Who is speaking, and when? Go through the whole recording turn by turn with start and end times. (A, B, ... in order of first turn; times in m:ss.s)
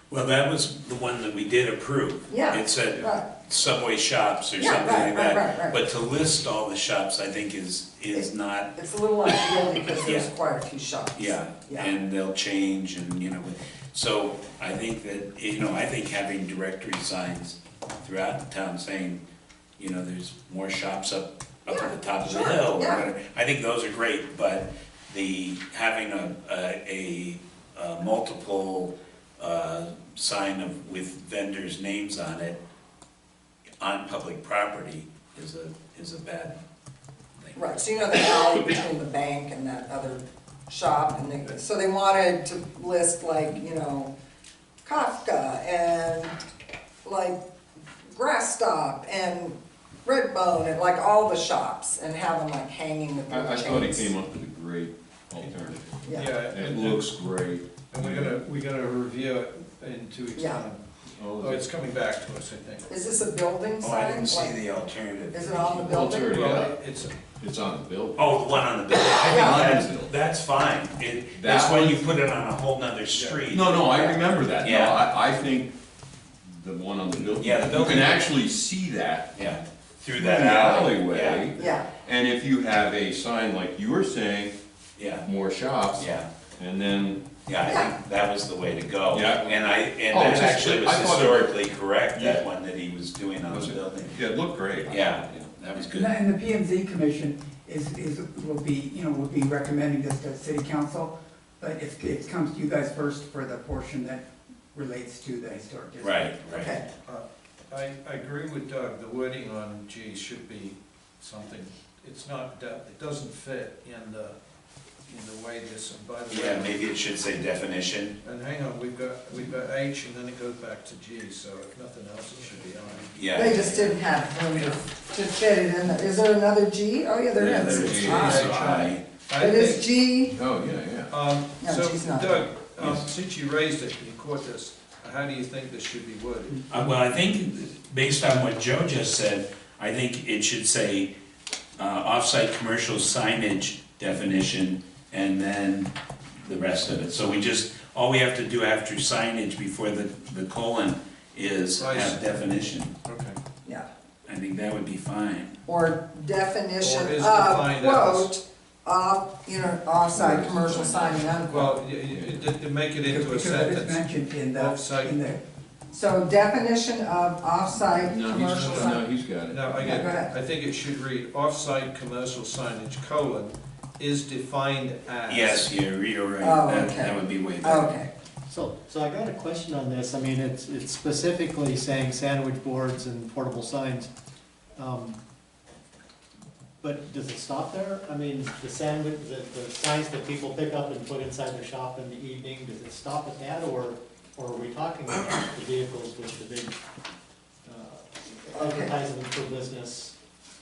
0:00.1-0:08.7 A
0:02.3-0:03.3 B
0:04.6-0:05.8 B
0:08.1-0:11.9 B
0:10.0-0:10.3 A
0:11.1-0:19.2 A
0:19.8-0:32.6 A
0:21.7-0:23.0 B
0:33.8-0:36.6 A
0:37.4-0:38.4 A
0:37.5-0:44.1 B
0:44.8-0:46.4 B
0:47.0-0:47.4 B
0:48.0-0:54.1 B
0:53.3-0:58.4 C
0:55.4-0:57.1 D
0:56.0-0:56.3 B
0:57.9-1:00.8 D
1:00.4-1:00.6 B
1:01.2-1:01.6 C
1:01.3-1:02.9 D
1:02.9-1:04.6 B
1:03.8-1:06.0 A
1:05.3-1:06.5 B
1:05.7-1:06.7 C
1:06.2-1:07.2 D
1:07.4-1:08.6 C
1:08.2-1:13.8 A
1:09.1-1:09.8 B
1:09.2-1:10.1 C
1:11.3-1:12.0 C
1:13.1-1:13.4 D
1:13.5-1:15.7 C
1:13.8-1:14.2 B
1:14.6-1:15.0 A
1:16.4-1:19.3 C
1:17.4-1:18.2 A
1:19.3-1:21.5 A
1:20.1-1:24.6 C
1:21.5-1:21.9 B
1:25.0-1:25.2 A
1:25.2-1:27.3 C
1:26.0-1:26.3 A
1:27.4-1:34.2 A
1:27.6-1:27.9 B
1:29.1-1:31.6 C
1:32.1-1:32.4 C
1:33.4-1:35.5 C
1:34.9-1:36.2 A
1:35.9-1:46.2 E
1:46.0-1:46.8 A
1:46.5-1:46.9 B
1:47.0-1:54.4 D
1:55.1-1:56.8 D
1:56.3-1:58.2 A
1:58.2-2:03.2 D
2:03.1-2:04.0 A
2:03.3-2:08.5 B
2:07.4-2:08.5 C
2:07.4-2:09.0 A
2:07.6-2:09.9 D
2:09.4-2:10.3 B
2:10.3-2:11.1 C
2:11.1-2:16.6 D
2:11.6-2:12.5 B
2:12.8-2:13.1 C
2:16.7-2:21.1 A
2:21.8-2:32.9 A
2:31.8-2:33.4 D
2:34.3-2:35.5 A
2:35.6-2:41.8 B
2:36.8-2:38.3 D
2:40.1-2:41.4 C
2:41.5-2:45.2 D
2:42.0-2:42.5 C
2:43.0-2:45.4 E
2:45.9-2:49.0 B
2:48.0-2:50.1 C
2:48.5-2:49.0 D
2:49.5-2:55.7 D
2:49.8-2:50.3 B
2:55.3-2:58.0 A
2:56.4-2:58.1 B
2:58.5-3:04.1 F
3:04.8-3:05.2 F
3:06.8-3:16.8 F
3:17.6-3:20.1 F
3:18.5-3:18.9 B